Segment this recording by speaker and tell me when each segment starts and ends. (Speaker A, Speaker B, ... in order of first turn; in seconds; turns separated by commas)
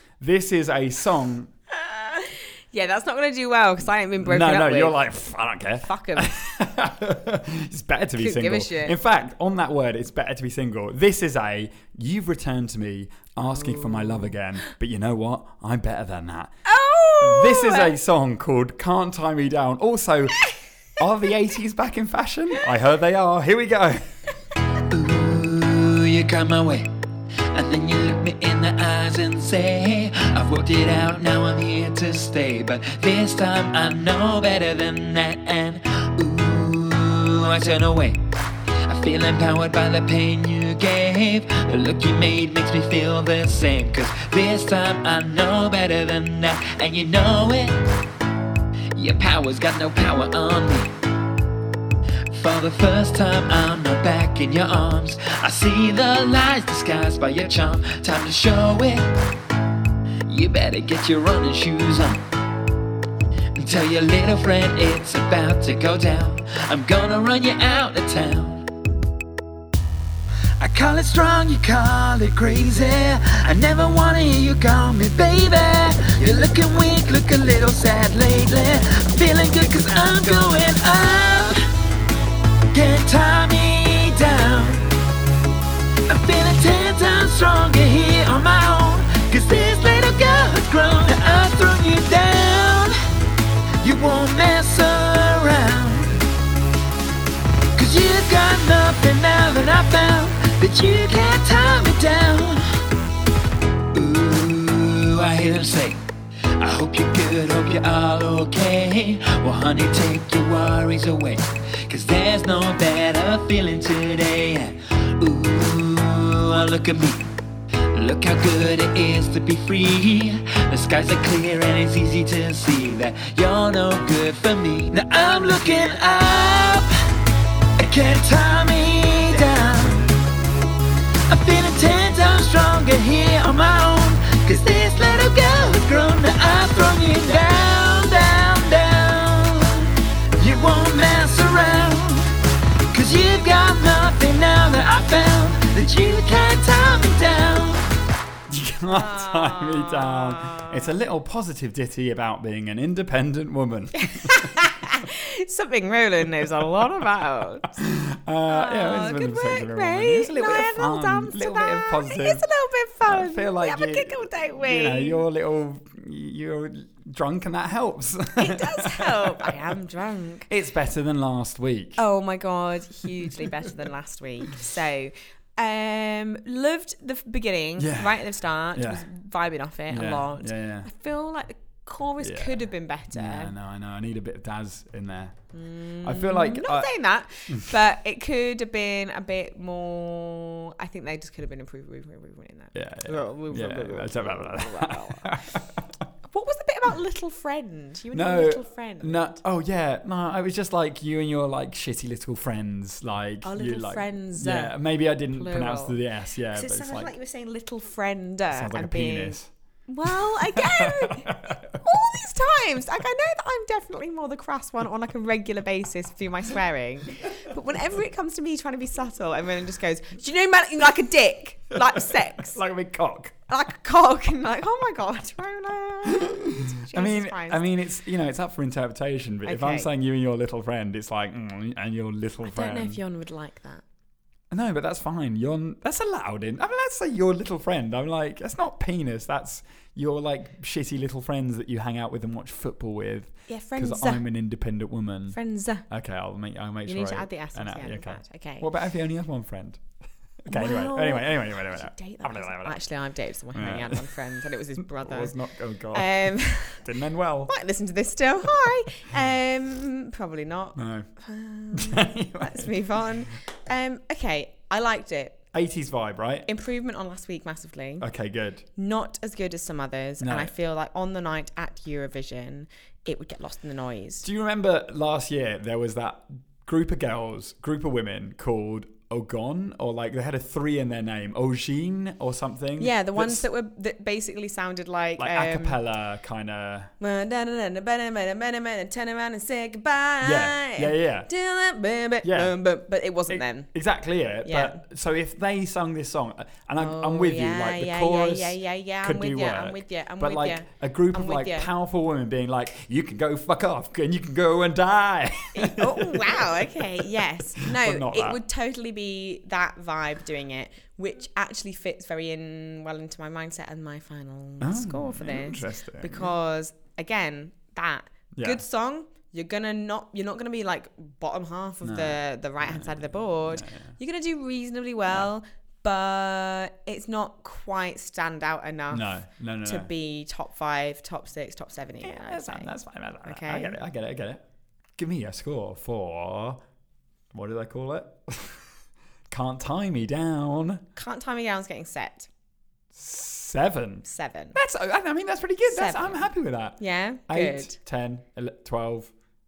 Speaker A: 0.2-1.5, Speaker B: 1.7-5.0, Speaker A: 4.2-16.5, Speaker B: 5.8-6.4, Speaker B: 8.2-9.0, Speaker B: 13.7-14.3, Speaker B: 16.6-17.9, Speaker A: 17.2-20.4, Speaker A: 21.0-24.0, Speaker C: 24.9-26.9, Speaker C: 27.5-38.2, Speaker C: 38.9-47.8, Speaker C: 49.0-50.9, Speaker C: 52.3-59.1, Speaker C: 60.3-62.2, Speaker C: 63.6-68.7, Speaker C: 70.6-81.6, Speaker C: 82.7-84.9, Speaker C: 86.1-92.9, Speaker C: 93.8-96.2, Speaker C: 97.7-102.6, Speaker C: 103.9-106.0, Speaker C: 106.6-117.3, Speaker C: 117.9-126.9, Speaker C: 127.8-130.2, Speaker C: 131.3-142.3, Speaker C: 142.9-147.9, Speaker A: 148.5-154.6, Speaker B: 148.9-150.8, Speaker B: 154.0-157.8, Speaker A: 157.8-162.4, Speaker B: 158.5-165.2, Speaker A: 163.0-169.6, Speaker B: 168.4-170.5, Speaker A: 170.5-172.0, Speaker B: 172.0-183.5, Speaker A: 177.8-179.1, Speaker A: 179.9-180.9, Speaker A: 182.2-185.4, Speaker B: 185.5-195.5, Speaker A: 186.0-186.9, Speaker A: 192.7-195.8, Speaker B: 196.3-199.4, Speaker A: 198.1-207.1, Speaker B: 203.4-204.8, Speaker B: 205.3-206.0, Speaker B: 206.5-222.6, Speaker A: 208.5-209.5, Speaker A: 210.1-211.6, Speaker A: 221.8-223.3, Speaker B: 223.5-227.6, Speaker A: 226.1-233.0, Speaker B: 229.4-229.9, Speaker B: 232.4-233.8, Speaker A: 234.5-249.9, Speaker B: 243.5-244.2, Speaker B: 245.3-245.8, Speaker B: 246.8-248.7, Speaker A: 250.4-252.8, Speaker B: 250.5-255.4, Speaker A: 253.5-254.2, Speaker A: 254.8-257.5, Speaker B: 255.9-256.8, Speaker B: 257.5-265.4, Speaker A: 260.8-261.1, Speaker A: 261.7-262.7, Speaker A: 265.5-266.5, Speaker B: 266.4-268.1, Speaker A: 268.0-268.6, Speaker B: 268.7-274.2, Speaker A: 270.2-270.5, Speaker A: 274.2-283.4, Speaker B: 282.8-285.8, Speaker A: 285.2-286.9, Speaker B: 287.0-293.7, Speaker A: 290.2-291.3, Speaker A: 292.2-292.5, Speaker A: 293.3-308.4, Speaker B: 294.4-294.8, Speaker B: 296.8-301.7, Speaker B: 305.5-329.1, Speaker A: 314.6-316.3, Speaker A: 318.3-318.6, Speaker A: 321.8-323.9, Speaker A: 328.9-329.9, Speaker B: 329.6-332.7, Speaker A: 332.0-334.4, Speaker B: 333.2-333.8, Speaker A: 335.0-336.6, Speaker A: 337.3-338.6, Speaker A: 339.3-340.8, Speaker B: 340.9-342.3, Speaker A: 342.9-349.1, Speaker B: 344.1-344.6, Speaker B: 345.6-347.8